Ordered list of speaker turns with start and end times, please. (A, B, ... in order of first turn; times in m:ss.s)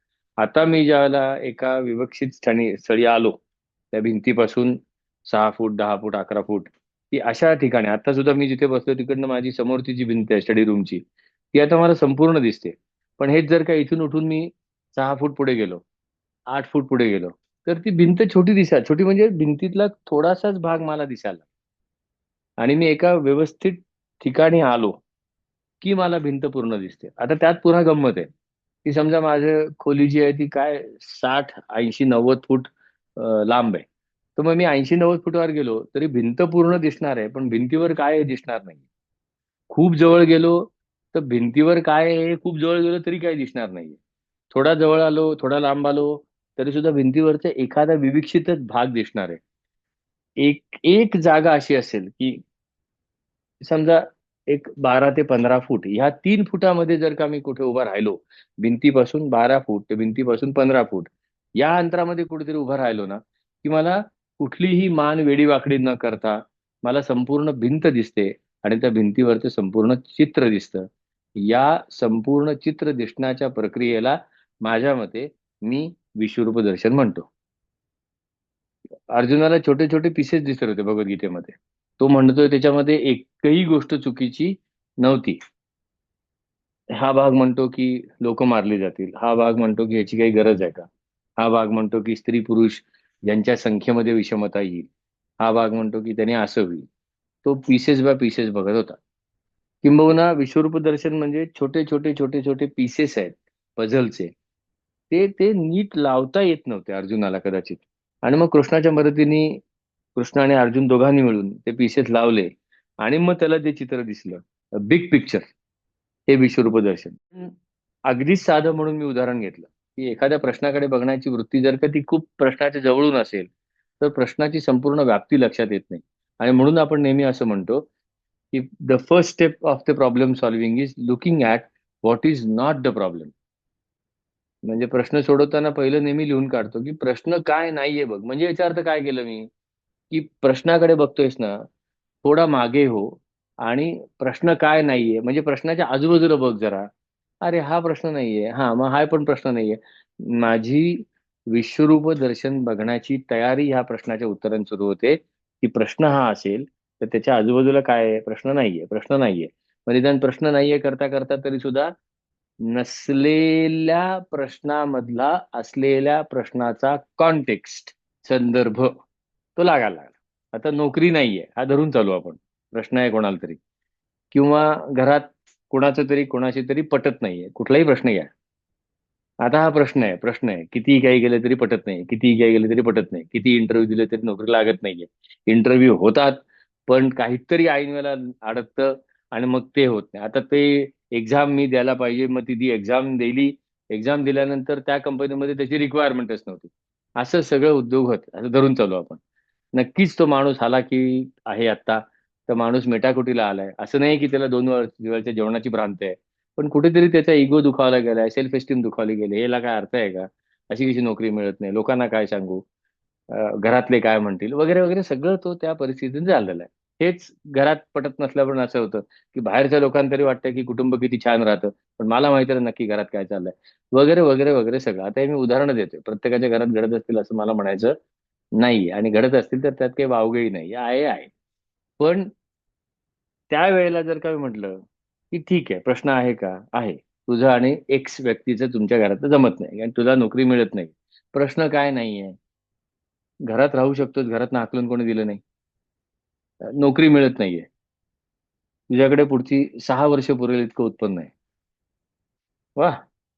0:00.4-0:03.4 A
0:03.9-0:11.0 A
0:11.5-0:15.8 A
0:16.5-0:21.4 A
0:22.6-0:25.0 A
0:25.8-0:28.3 A
0:28.8-0:33.8 A
0:34.4-0:38.8 A
0:39.7-0:44.0 A
0:44.5-0:49.4 A
0:50.4-0:52.4 A
0:53.6-1:10.8 A
1:11.4-1:17.3 A
1:19.1-1:25.4 A
1:27.0-1:30.9 A
1:31.4-1:34.9 A
1:35.4-1:36.9 A
1:37.4-1:39.0 A
1:39.8-1:44.3 A
1:45.1-1:49.6 A
1:50.2-1:52.5 A
1:53.0-1:55.4 A
1:56.3-1:57.5 A
1:58.1-2:03.5 A
2:04.0-2:07.8 A
2:08.5-2:13.3 A
2:14.6-2:19.5 A
2:20.1-2:21.6 A
2:22.2-2:26.9 A
2:27.4-2:41.9 A
2:42.7-2:48.9 A
2:49.6-2:53.6 A
2:54.3-2:58.3 A
2:59.4-3:19.2 A
3:19.7-3:32.6 A
3:33.3-3:47.9 A
3:48.6-3:51.3 A
3:52.0-3:52.3 A
3:53.5-4:02.4 A
4:03.5-4:05.4 A
4:06.8-4:07.7 A
4:08.9-4:11.3 A
4:12.8-4:13.0 A